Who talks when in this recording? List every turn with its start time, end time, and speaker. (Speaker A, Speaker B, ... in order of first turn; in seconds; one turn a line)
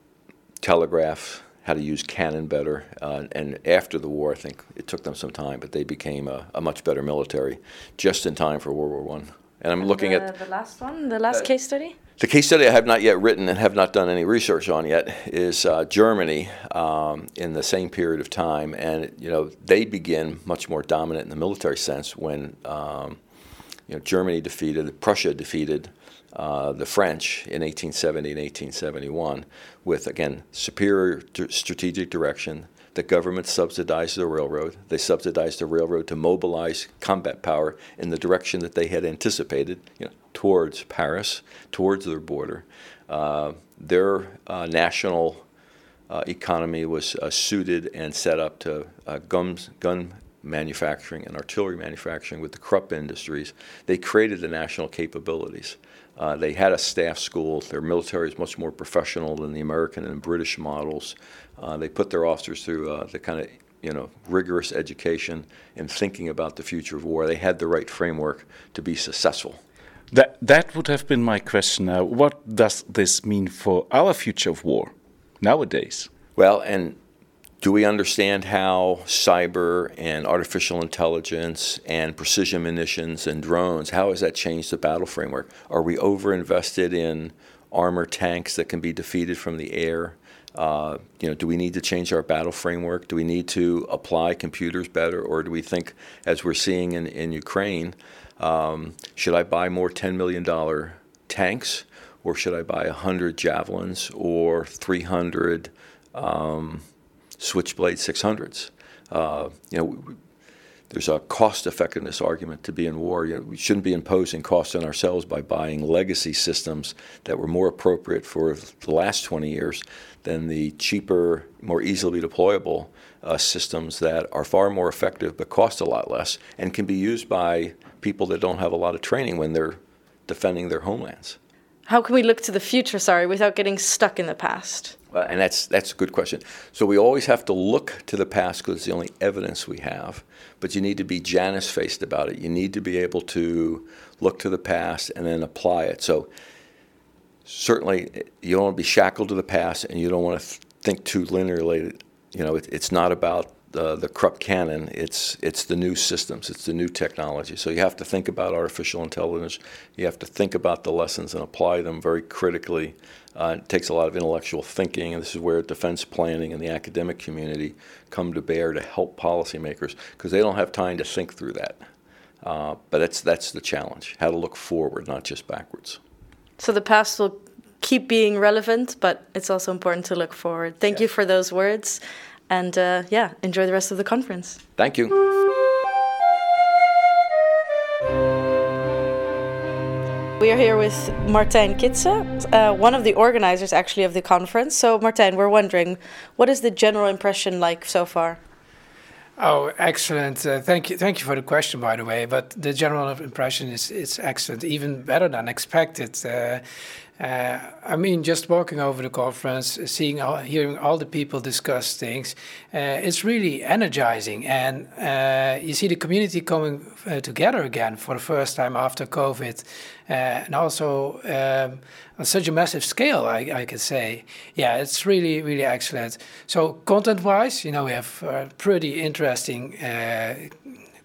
Speaker A: 0.6-10.3
Speaker B: 9.8-11.9
Speaker A: 12.2-23.2
Speaker A: 23.9-45.4
Speaker A: 46.1-69.6
Speaker C: 70.1-76.1
Speaker A: 76.3-77.0
Speaker A: 77.6-106.8
Speaker A: 107.4-110.2
Speaker A: 110.9-131.4
Speaker B: 131.9-134.9
Speaker A: 135.1-146.3
Speaker A: 147.4-171.8
Speaker A: 172.4-176.0
Speaker B: 176.6-184.6
Speaker A: 184.8-185.2
Speaker B: 190.4-198.4
Speaker D: 199.4-206.6
Speaker D: 207.2-230.5